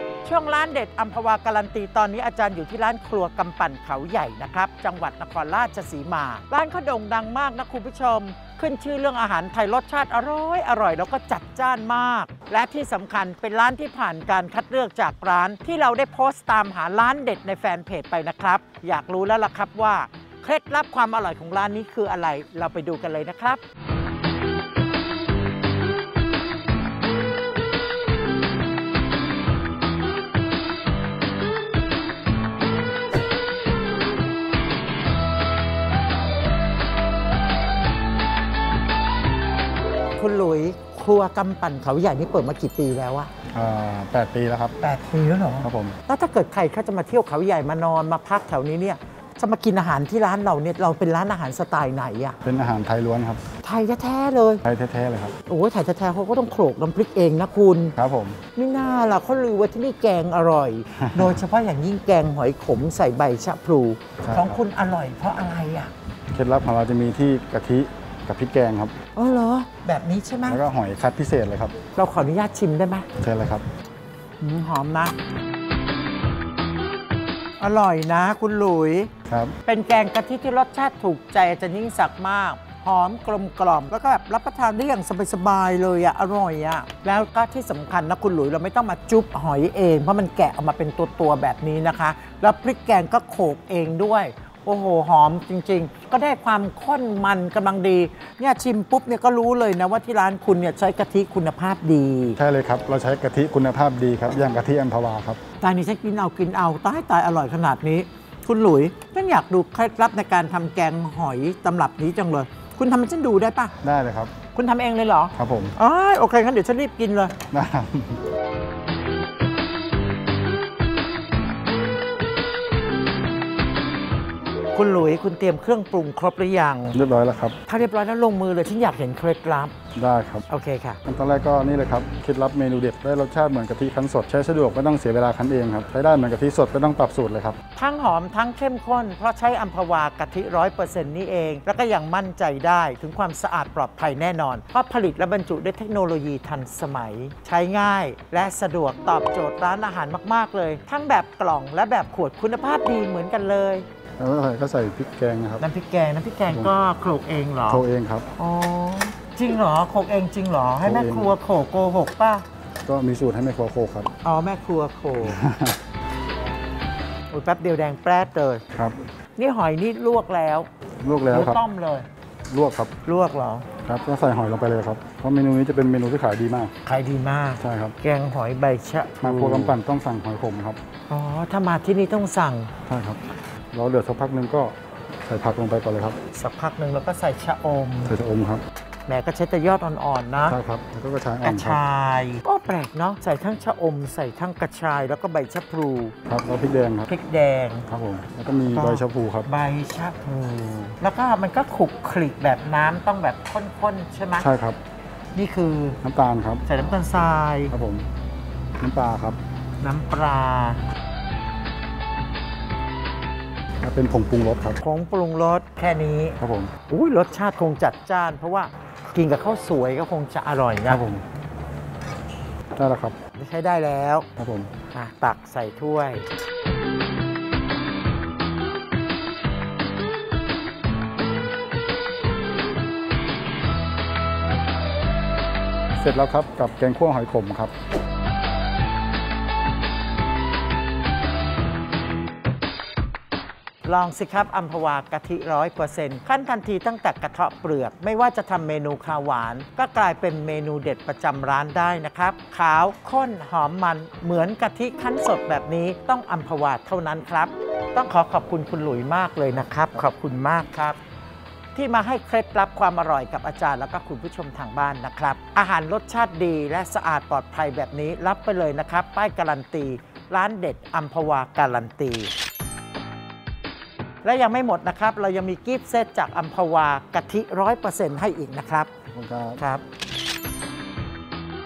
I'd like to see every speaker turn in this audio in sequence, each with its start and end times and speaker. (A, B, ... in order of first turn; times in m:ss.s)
0:00.2-0:23.6 A
0:40.2-0:43.3 A
0:43.5-0:44.8 B
0:44.8-0:52.4 A
0:45.6-0:46.0 B
0:52.4-0:53.5 B
0:53.6-0:54.6 A
0:54.6-0:55.4 B
0:55.4-0:58.0 A
0:58.0-0:58.4 B
0:58.5-1:05.9 A
1:04.2-1:04.6 B
1:06.3-1:09.0 B
1:09.2-1:10.6 A
1:10.5-1:11.8 B
1:11.9-1:13.1 A
1:13.2-1:13.6 B
1:14.4-1:15.2 A
1:17.6-1:19.1 A
1:19.3-1:19.6 B
1:19.7-1:42.4 A
1:42.4-1:45.4 B
1:45.6-1:53.8 A
1:53.8-1:54.4 B
1:54.5-1:57.4 A
1:55.4-1:55.8 B
1:57.5-1:58.2 B
2:04.7-2:07.0 A
2:06.9-2:07.6 B
2:07.7-2:09.8 A
2:10.0-2:10.4 B
2:10.5-2:11.0 A
2:11.1-2:17.6 B
2:17.8-2:33.8 A
2:34.2-2:35.6 B
2:35.6-2:37.8 A
2:37.7-2:38.3 B
2:38.4-2:42.4 A
2:40.8-2:41.4 B
2:42.8-2:44.1 B
2:44.2-2:45.4 A
2:45.2-2:45.8 B
2:47.3-2:48.6 A
2:49.4-2:50.7 A
2:51.0-2:51.6 B
2:51.3-2:52.1 A
2:52.5-2:52.9 B
2:53.0-2:53.7 A
2:53.8-2:56.7 B
2:56.8-2:59.8 A
2:57.6-2:58.0 B
2:59.2-3:00.8 B
3:01.1-3:02.7 A
3:02.9-3:06.2 B
3:06.3-3:08.2 A
3:08.1-3:08.6 B
3:09.1-3:10.6 A
3:10.5-3:11.8 B
3:11.4-3:16.2 A
3:16.3-3:17.1 B
3:17.1-3:17.9 A
3:17.9-3:19.5 B
3:18.7-3:24.5 A
3:24.4-3:24.8 B
3:25.3-3:26.0 A
3:26.0-3:26.6 B
3:26.6-3:27.8 A
3:27.7-3:28.1 B
3:28.8-3:29.4 B
3:29.8-3:30.8 A
3:33.8-3:34.8 B
3:34.8-3:41.0 A
3:36.4-3:36.7 B
3:40.9-3:41.2 B
3:42.8-3:43.2 B
3:43.4-3:44.3 A
3:44.4-3:44.7 B
3:44.9-3:46.3 A
3:56.0-3:57.7 B
4:03.8-4:21.0 A
4:21.7-4:32.3 A
4:34.2-4:38.9 A
4:39.1-4:39.6 B
4:39.6-4:39.8 A